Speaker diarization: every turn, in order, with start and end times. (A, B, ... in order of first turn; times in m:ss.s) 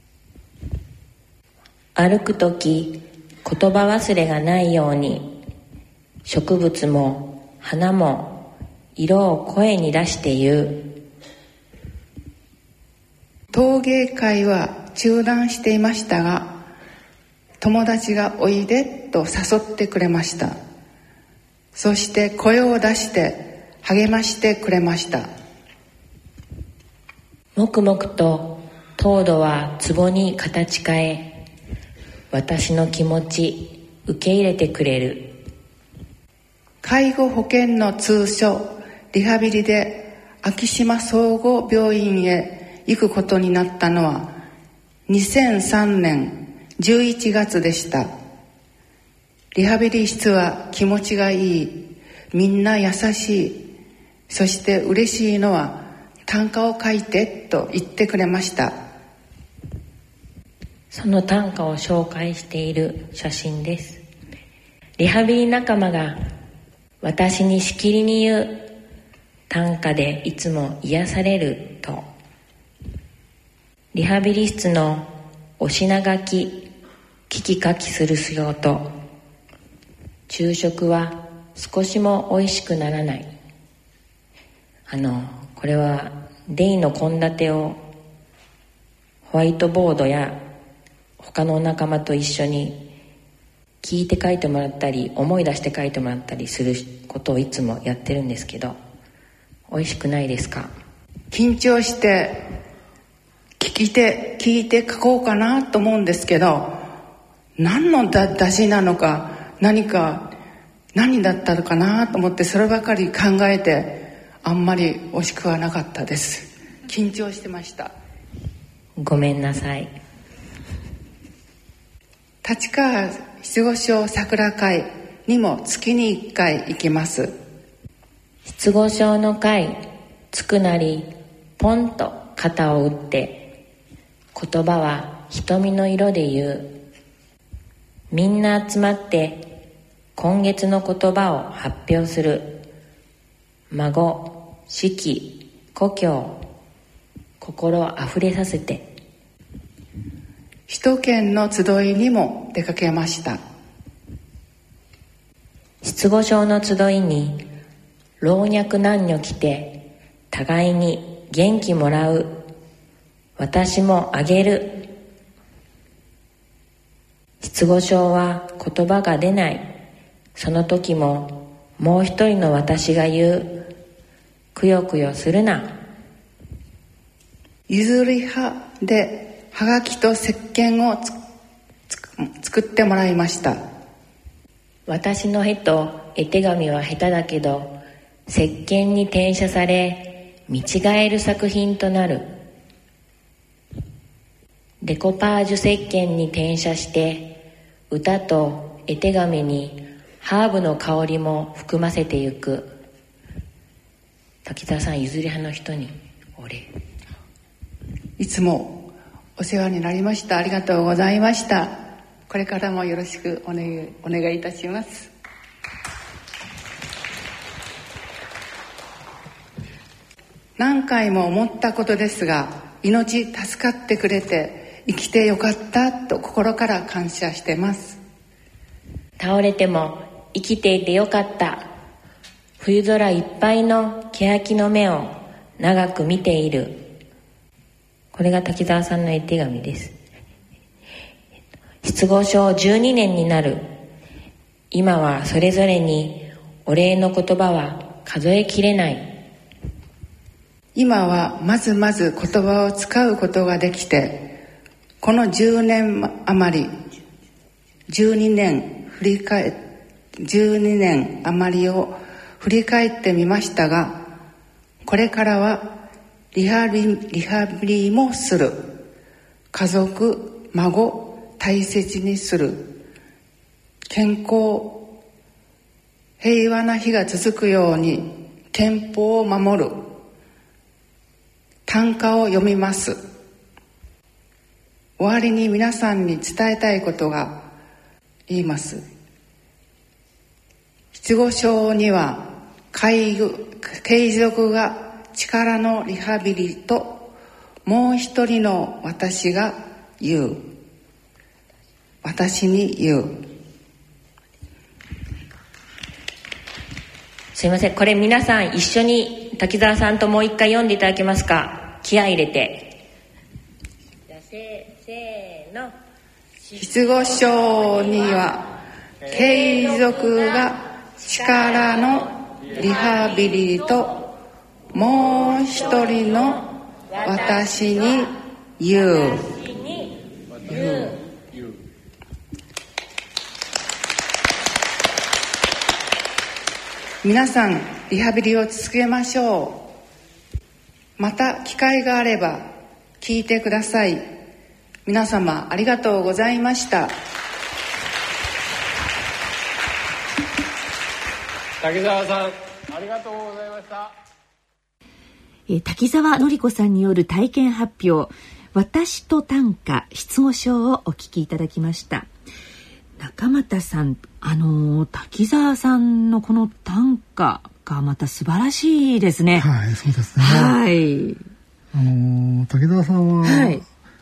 0:02.0-0:05.4 A
0:06.2-0:11.0 A
0:13.5-0:16.6 B
0:17.6-0:20.6 B
0:21.7-0:25.3 B
0:27.6-0:31.4 A
0:32.3-0:35.4 A
0:36.8-0:44.3 B
0:45.1-0:48.1 B
0:49.5-0:53.7 B
0:54.3-0:58.8 B
1:00.9-1:04.0 A
1:05.0-1:06.2 A
1:07.0-1:08.7 A
1:09.5-1:12.1 A
1:13.9-1:16.7 A
1:17.3-1:18.9 A
1:20.3-1:23.3 A
1:24.9-1:27.8 A
1:29.2-1:30.4 A
1:31.2-1:32.9 A
1:33.8-1:38.8 A
1:39.7-1:40.7 A
1:41.3-1:42.4 B
1:43.6-1:46.8 B
1:47.6-1:50.3 B
1:50.9-1:57.9 B
1:59.0-1:59.9 A
2:02.4-2:07.3 B
2:08.4-2:09.8 A
2:10.3-2:13.5 A
2:14.3-2:16.8 A
2:18.1-2:19.5 A
2:20.2-2:22.6 A
2:23.7-2:26.4 A
2:27.4-2:28.9 A
2:30.7-2:33.4 B
2:35.8-2:37.4 A
2:38.2-2:42.3 A
2:43.4-2:44.9 A
2:47.4-2:49.6 A
2:50.4-2:53.6 A
2:54.6-2:55.8 A
2:57.7-3:01.1 B
3:01.9-3:03.6 B
3:04.9-3:07.8 A
3:08.3-3:12.3 A
3:14.8-3:17.4 A
3:17.9-3:22.7 A
3:24.4-3:26.7 A
3:28.2-3:35.1 B
3:40.6-3:48.0 B
3:49.2-3:51.7 A
3:52.6-3:56.9 A
3:58.1-4:00.0 A
4:01.8-4:03.7 A
4:04.7-4:09.1 A
4:10.8-4:14.3 B
4:15.0-4:16.7 B
4:17.9-4:19.6 B
4:20.2-4:24.0 B
4:24.8-4:25.8 B
4:26.3-4:28.7 B
4:29.5-4:32.7 B
4:33.9-4:34.9 B
4:36.2-4:39.9 B
4:41.7-4:43.0 B
4:45.0-4:47.5 B
4:48.3-4:48.8 B
4:50.9-4:57.1 B
4:57.6-5:00.4 B
5:02.0-5:03.1 B
5:07.3-5:12.8 A
5:16.6-5:24.0 B
5:24.7-5:29.5 B
5:30.6-5:30.9 B
5:37.0-5:39.7 B
5:41.0-5:44.0 B
5:44.9-5:46.9 B
5:51.6-5:53.9 C
5:55.5-6:02.1 D
6:03.0-6:09.5 D
6:09.4-6:10.6 E
6:10.2-6:11.2 D
6:11.7-6:13.6 E
6:13.2-6:13.6 D